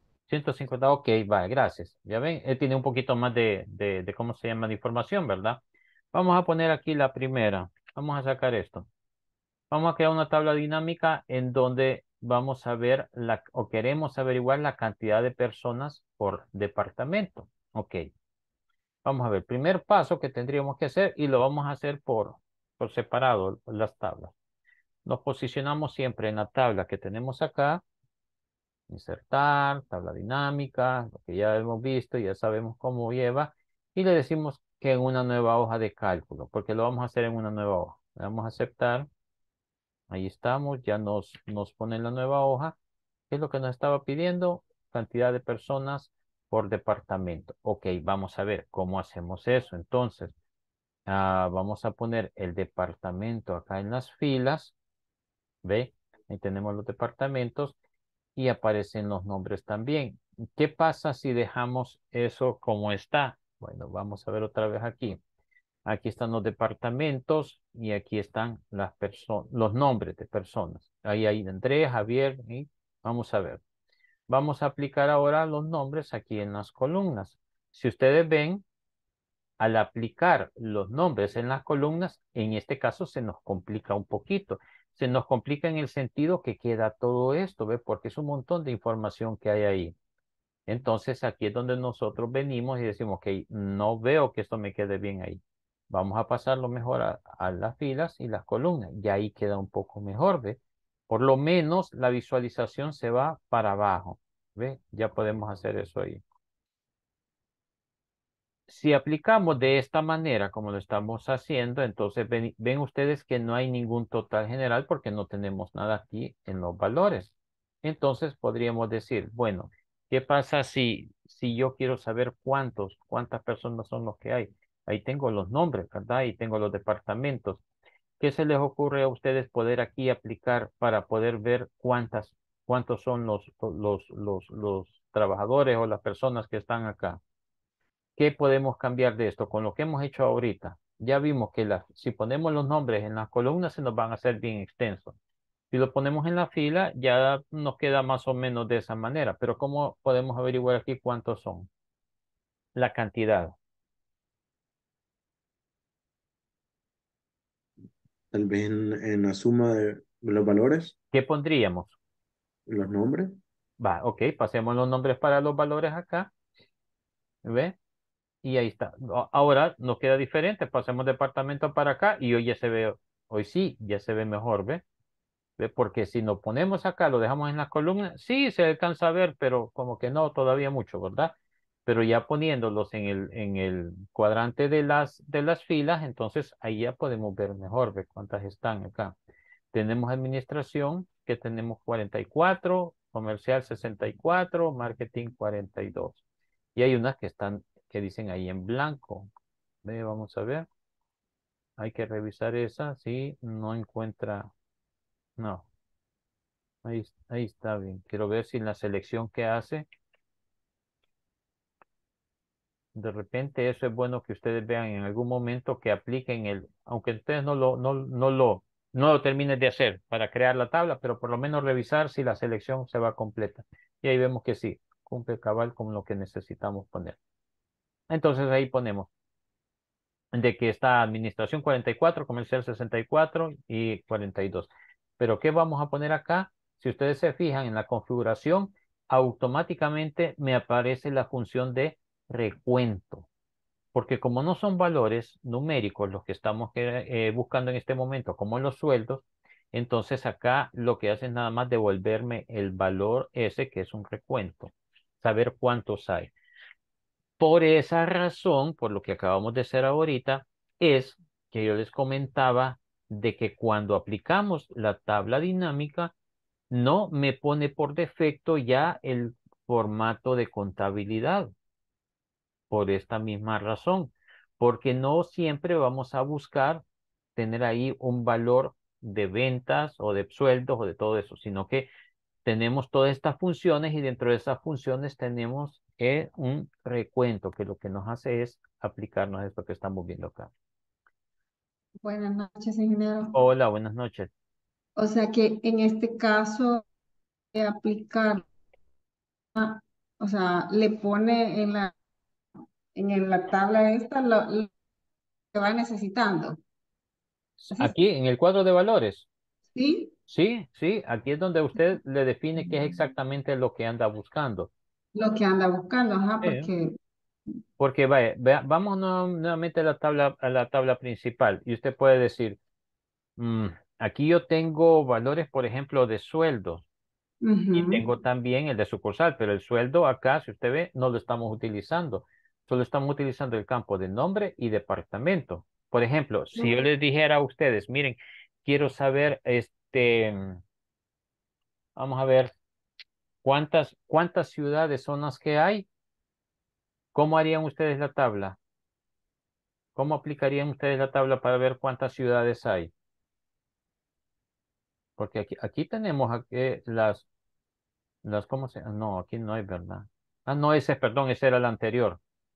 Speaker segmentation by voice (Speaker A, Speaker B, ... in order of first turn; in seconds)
Speaker A: 0.3-5.6, 6.1-8.9, 9.7-18.1, 19.0-24.3, 25.0-27.8, 28.9-39.1, 40.1-42.8, 43.3-50.3, 51.1-54.7, 55.6-57.8, 58.4-65.2, 65.8-73.6, 74.3-78.6, 79.6-89.9, 90.7-106.2, 108.7-127.6, 128.2-137.2, 138.2-145.2, 145.7-151.7, 152.7-153.5, 161.1-161.9, 163.8-166.3, 167.4-167.8, 168.4-174.8, 175.6-181.3, 181.8-189.1, 189.7-196.2, 196.8-199.3, 199.8-200.7, 201.8-204.5, 205.4-205.7, 206.8-209.8, 212.9-227.2, 228.1-229.1, 230.3-243.3, 243.9-256.3, 257.4-266.1, 266.7-271.5, 272.7-276.8, 277.4-281.9, 282.4-290.5, 293.3-294.3, 307.6-309.3, 310.3-314.7, 316.4-316.7, 317.8-322.6, 323.4-326.8, 327.7-340.6, 341.9-342.5, 343.4-345.9, 347.1-348.6, 349.9-352.9, 355.2-357.3, 358.2-362.2
Speaker B: 158.3-160.9, 162.7-163.4
Speaker C: 292.0-293.4, 295.0-296.8, 297.5-298.4, 299.6-301.9, 302.9-304.7, 305.5-306.6, 309.7-310.1, 315.1-317.0, 327.4-328.0